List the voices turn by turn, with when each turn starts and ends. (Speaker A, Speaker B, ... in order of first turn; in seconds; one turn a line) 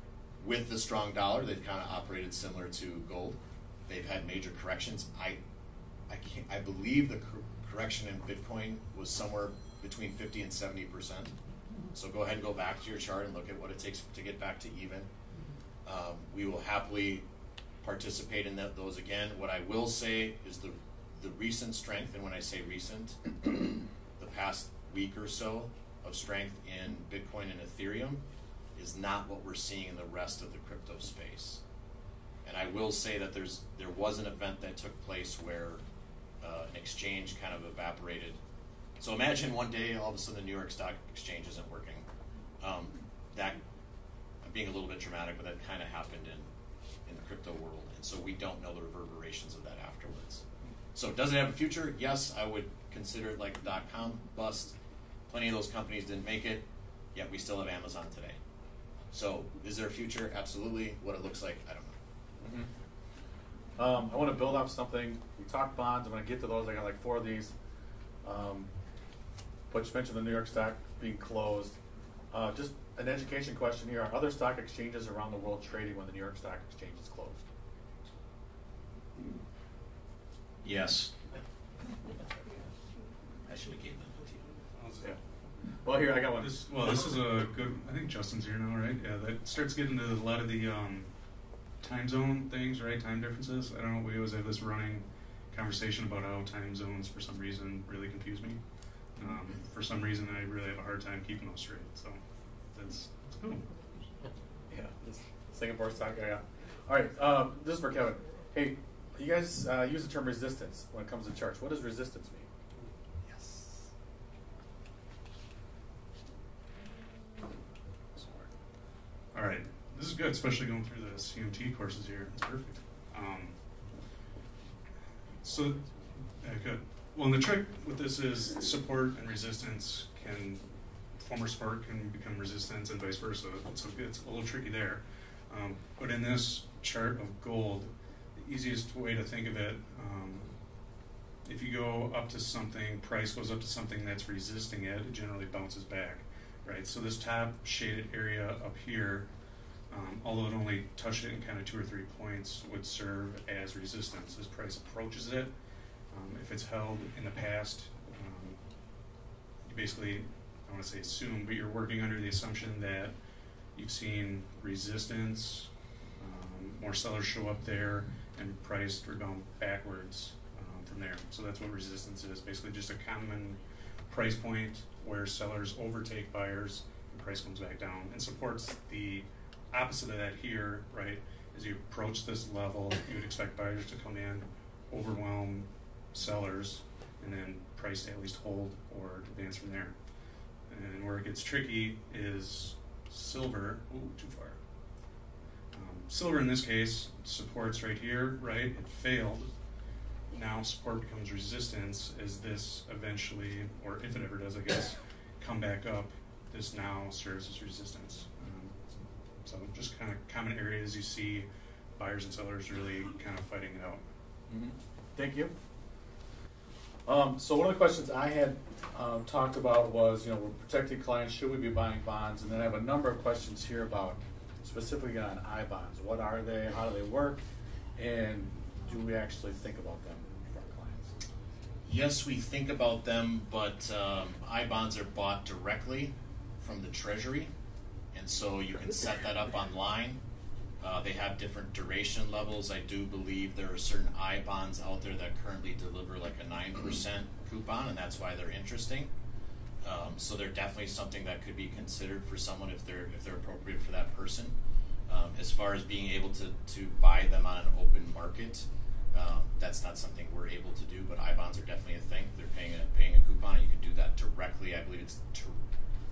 Speaker A: 0.4-3.4
Speaker A: 3.9-5.4
Speaker A: 6.1-11.3
Speaker A: 11.9-15.1
Speaker A: 15.9-17.2
Speaker A: 17.8-28.2
Speaker A: 28.8-31.6
Speaker A: 32.5-35.8
Speaker A: 36.4-38.4
Speaker A: 39.0-42.0
Speaker A: 42.6-43.6
Speaker A: 44.4-46.5
Speaker A: 47.1-54.8
Speaker A: 55.3-58.4
Speaker A: 59.1-62.0
Speaker B: 62.4-62.7
Speaker B: 63.8-67.5
Speaker B: 68.2-68.7
Speaker B: 69.7-71.8
Speaker B: 72.3-77.5
Speaker A: 80.6-81.2
Speaker A: 83.5-84.5
Speaker C: 84.8-85.1
Speaker B: 85.8-86.9
Speaker C: 86.4-91.1
Speaker C: 91.8-98.6
Speaker C: 99.2-102.2
Speaker C: 102.7-103.7
Speaker B: 104.7-112.5
Speaker C: 119.3-123.6
Speaker C: 125.4-125.8
Speaker C: 126.4-130.6
Speaker C: 131.2-140.6
Speaker C: 141.4-149.3
Speaker C: 149.9-155.5
Speaker C: 156.1-158.6
Speaker C: 159.6-163.1
Speaker C: 163.8-189.9
Speaker C: 190.7-194.6
Speaker C: 195.7-199.5
Speaker C: 200.3-214.0
Speaker B: 214.5-215.5
Speaker B: 217.1-227.4
Speaker B: 228.0-231.2
Speaker A: 231.9-237.5
Speaker A: 238.1-240.2
Speaker A: 240.8-249.1
Speaker A: 249.8-254.6
Speaker A: 255.1-265.6